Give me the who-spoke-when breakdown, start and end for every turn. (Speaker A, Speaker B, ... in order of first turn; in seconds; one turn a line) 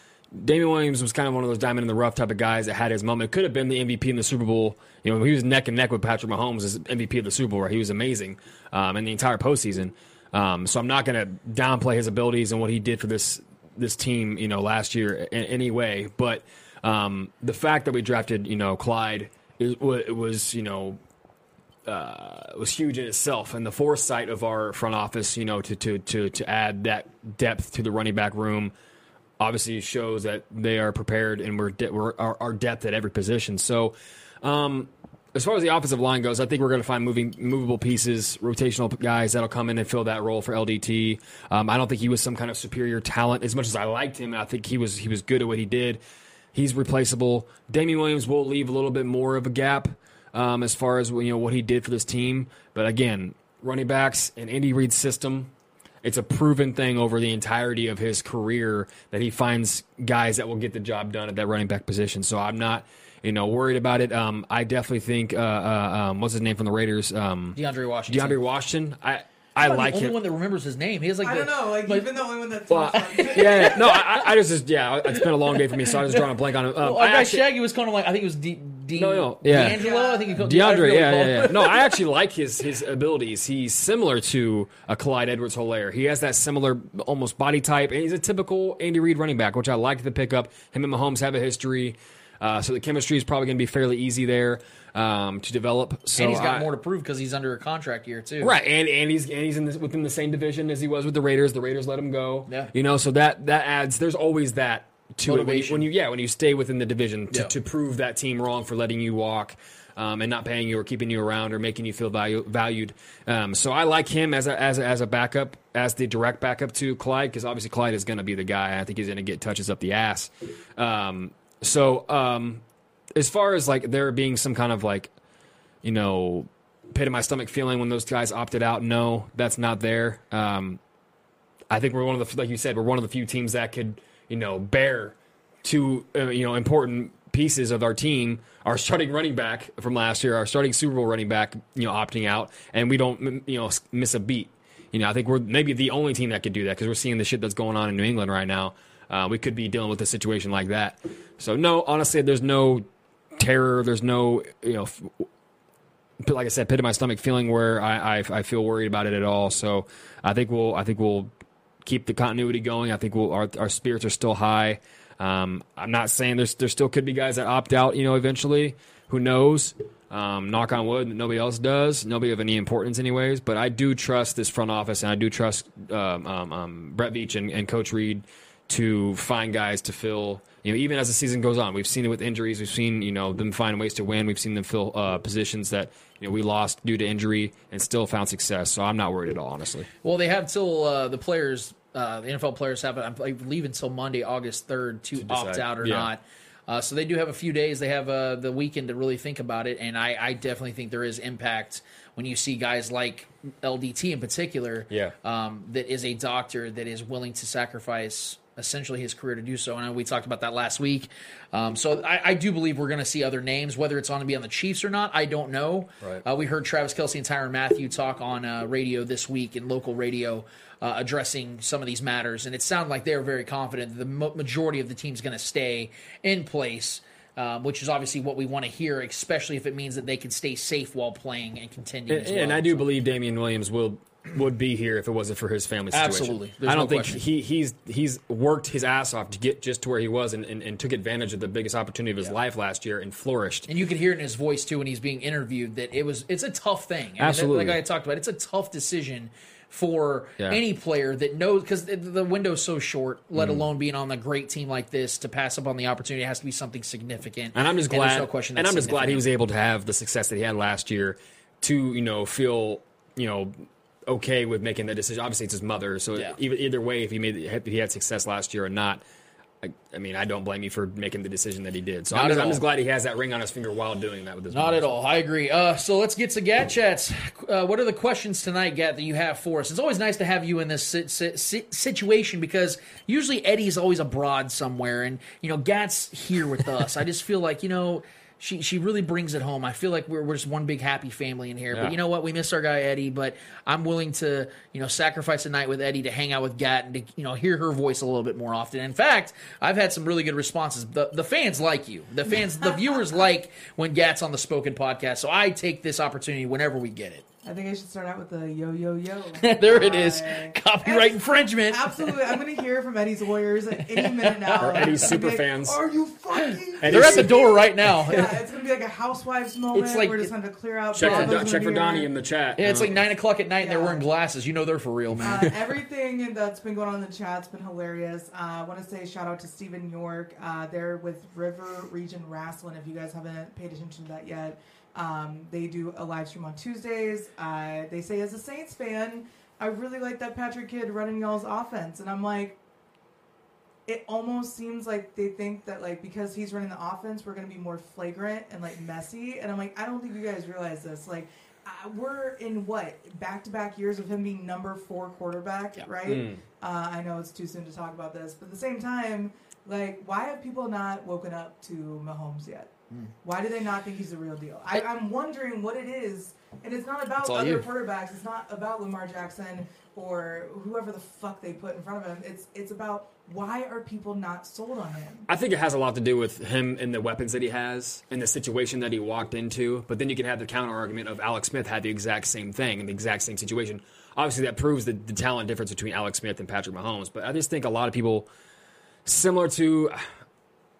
Speaker A: 0.3-21.0
Speaker A: 21.9-28.7
Speaker A: 29.4-46.0
Speaker A: 46.5-55.5
Speaker A: 56.0-70.1
Speaker B: 67.5-68.4
Speaker B: 69.6-72.1
Speaker C: 71.2-74.0
Speaker A: 72.7-77.4
Speaker B: 73.0-74.3
Speaker B: 75.1-76.2
Speaker B: 76.8-81.8
Speaker A: 78.9-79.8
Speaker C: 79.7-80.3
Speaker A: 80.3-96.7
Speaker B: 96.1-98.5
Speaker A: 98.4-122.6
Speaker B: 102.5-102.7
Speaker B: 105.2-105.9
Speaker B: 107.3-107.5
Speaker A: 123.1-125.1
Speaker A: 125.8-130.8
Speaker A: 131.7-155.2
Speaker A: 156.2-161.3
Speaker A: 161.8-189.9
Speaker B: 190.0-232.9
Speaker A: 195.2-196.1
Speaker A: 204.9-205.1
Speaker A: 232.1-243.7
Speaker B: 235.9-237.2
Speaker B: 243.7-259.3
Speaker A: 247.2-247.8
Speaker A: 253.3-253.7
Speaker A: 257.5-263.6
Speaker A: 264.1-269.0
Speaker B: 266.1-266.4
Speaker A: 269.6-274.9
Speaker B: 272.1-272.6
Speaker B: 274.5-307.2
Speaker C: 302.3-303.2
Speaker C: 307.4-322.1
Speaker B: 309.4-312.3
Speaker B: 313.9-315.0
Speaker A: 314.6-315.8
Speaker A: 316.8-317.5
Speaker B: 316.8-318.2
Speaker B: 319.7-320.3
Speaker A: 320.9-323.0
Speaker B: 321.0-321.4
Speaker B: 322.6-325.4
Speaker C: 323.6-324.0
Speaker C: 325.2-342.6
Speaker A: 325.3-325.6
Speaker C: 343.9-362.7
Speaker A: 356.0-356.4
Speaker C: 363.2-375.3
Speaker B: 367.2-367.7
Speaker A: 375.3-388.3
Speaker A: 389.1-390.1